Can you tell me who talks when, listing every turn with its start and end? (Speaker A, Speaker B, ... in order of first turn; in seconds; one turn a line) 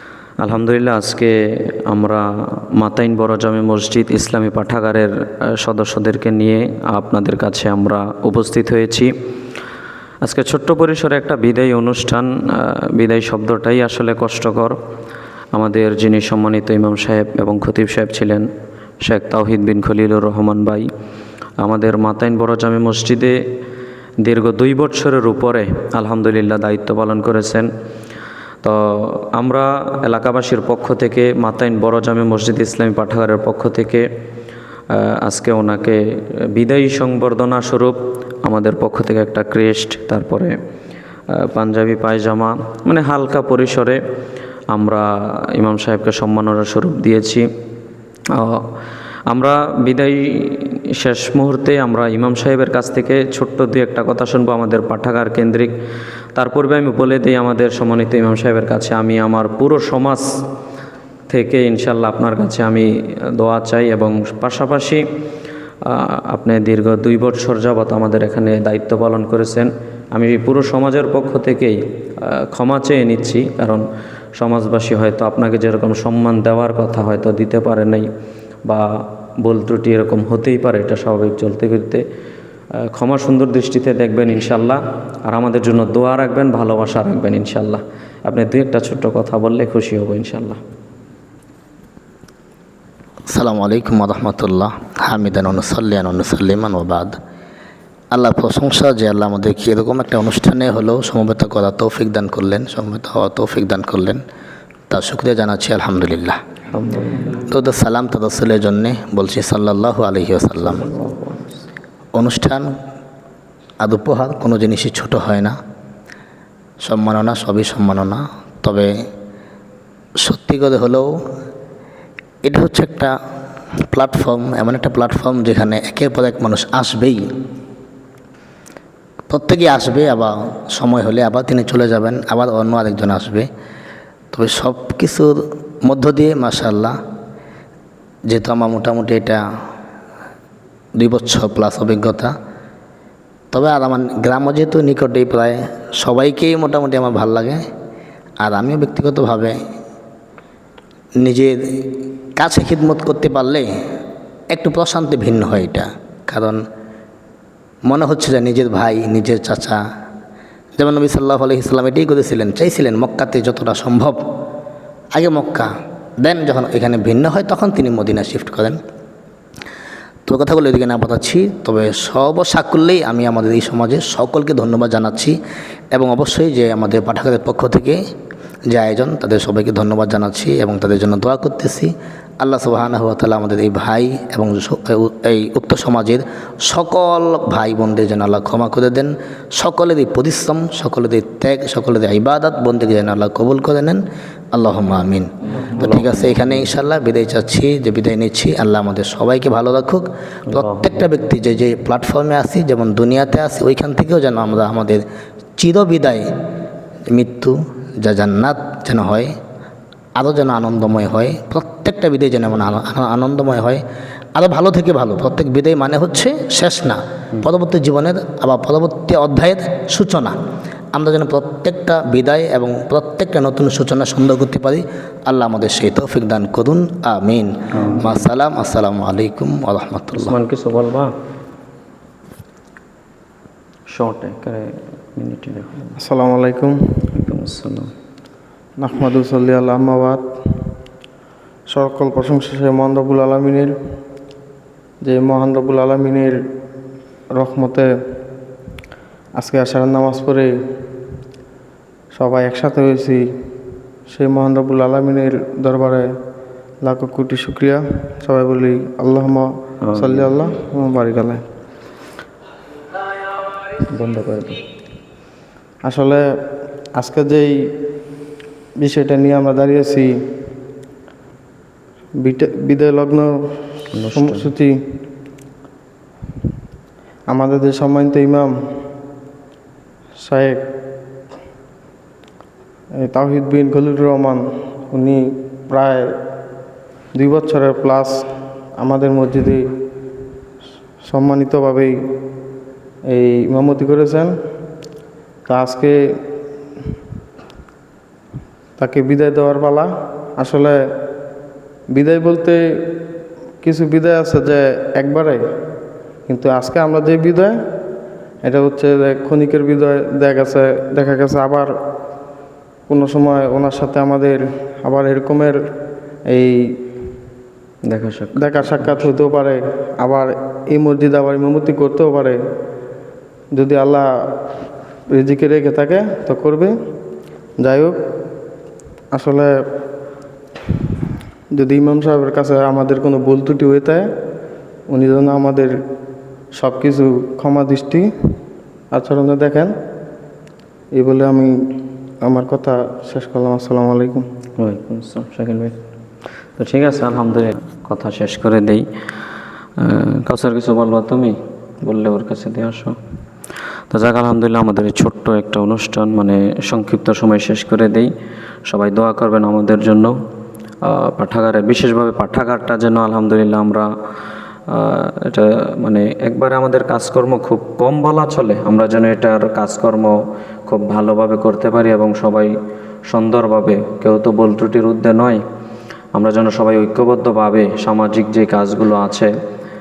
Speaker A: 0.4-9.1
Speaker A: 10.2-14.8
Speaker A: 15.5-18.5
Speaker A: 19.0-20.9
Speaker A: 21.6-23.4
Speaker A: 24.2-27.7
Speaker A: 28.6-34.0
Speaker A: 34.9-36.0
Speaker A: 36.5-40.5
Speaker A: 41.3-44.0
Speaker A: 44.7-47.5
Speaker A: 48.3-48.6
Speaker A: 49.3-55.7
Speaker A: 56.3-60.3
Speaker A: 61.3-65.0
Speaker A: 65.8-78.1
Speaker A: 79.4-82.0
Speaker A: 82.9-90.6
Speaker B: 93.3-97.1
Speaker B: 98.1-104.2
Speaker B: 104.9-106.4
Speaker A: 106.7-107.3
Speaker B: 107.4-110.9
Speaker A: 110.8-111.5
Speaker B: 112.1-112.7
Speaker B: 113.8-115.6
Speaker B: 116.8-119.0
Speaker B: 120.2-121.2
Speaker B: 122.4-123.2
Speaker B: 123.9-127.2
Speaker B: 129.3-133.5
Speaker B: 134.3-136.9
Speaker B: 138.3-139.4
Speaker B: 141.0-142.3
Speaker B: 143.5-147.6
Speaker B: 148.4-149.6
Speaker B: 151.2-153.7
Speaker B: 154.5-156.6
Speaker B: 157.9-159.8
Speaker B: 160.8-164.2
Speaker B: 165.1-168.8
Speaker B: 170.2-175.4
Speaker B: 175.9-178.0
Speaker B: 178.7-205.0
Speaker A: 195.6-196.7
Speaker A: 200.5-200.9
Speaker B: 205.6-206.2
Speaker B: 207.1-209.3
Speaker B: 210.2-213.8
Speaker B: 214.3-220.3
Speaker B: 220.9-230.3
Speaker A: 227.7-228.2
Speaker A: 230.1-231.1
Speaker A: 233.9-236.0
Speaker C: 236.0-236.8
Speaker A: 237.1-237.9
Speaker C: 238.8-240.3
Speaker C: 241.7-243.7
Speaker C: 245.0-246.4
Speaker C: 247.4-247.9
Speaker C: 249.4-250.5
Speaker C: 252.1-253.2
Speaker C: 254.1-256.1
Speaker C: 256.8-261.4
Speaker A: 259.8-260.3
Speaker A: 263.8-264.6
Speaker C: 265.8-266.2
Speaker C: 267.0-267.7
Speaker C: 268.8-270.1
Speaker C: 272.2-274.8
Speaker A: 273.9-274.4
Speaker C: 277.3-278.5
Speaker C: 280.2-280.6
Speaker C: 283.0-286.1
Speaker C: 287.1-289.6
Speaker C: 291.0-291.9
Speaker C: 293.1-294.3
Speaker C: 295.5-296.0
Speaker C: 298.8-300.8
Speaker C: 301.9-302.6
Speaker C: 303.6-305.4
Speaker C: 306.3-307.5
Speaker C: 308.4-311.7
Speaker C: 312.9-315.6
Speaker C: 316.3-316.7
Speaker A: 317.8-319.1
Speaker C: 318.4-322.4
Speaker C: 323.5-324.1
Speaker C: 325.1-326.7
Speaker C: 327.6-328.0
Speaker C: 329.1-329.5
Speaker C: 331.5-334.1
Speaker C: 334.9-335.8
Speaker C: 336.5-338.1
Speaker C: 338.9-339.7
Speaker C: 340.9-341.7
Speaker C: 342.2-344.2
Speaker A: 344.6-345.8
Speaker A: 346.6-348.9
Speaker A: 349.8-353.0
Speaker A: 353.9-358.1
Speaker A: 358.7-360.1
Speaker A: 360.8-363.9
Speaker A: 364.7-370.1
Speaker A: 370.7-372.5
Speaker A: 373.1-375.4
Speaker A: 376.1-379.3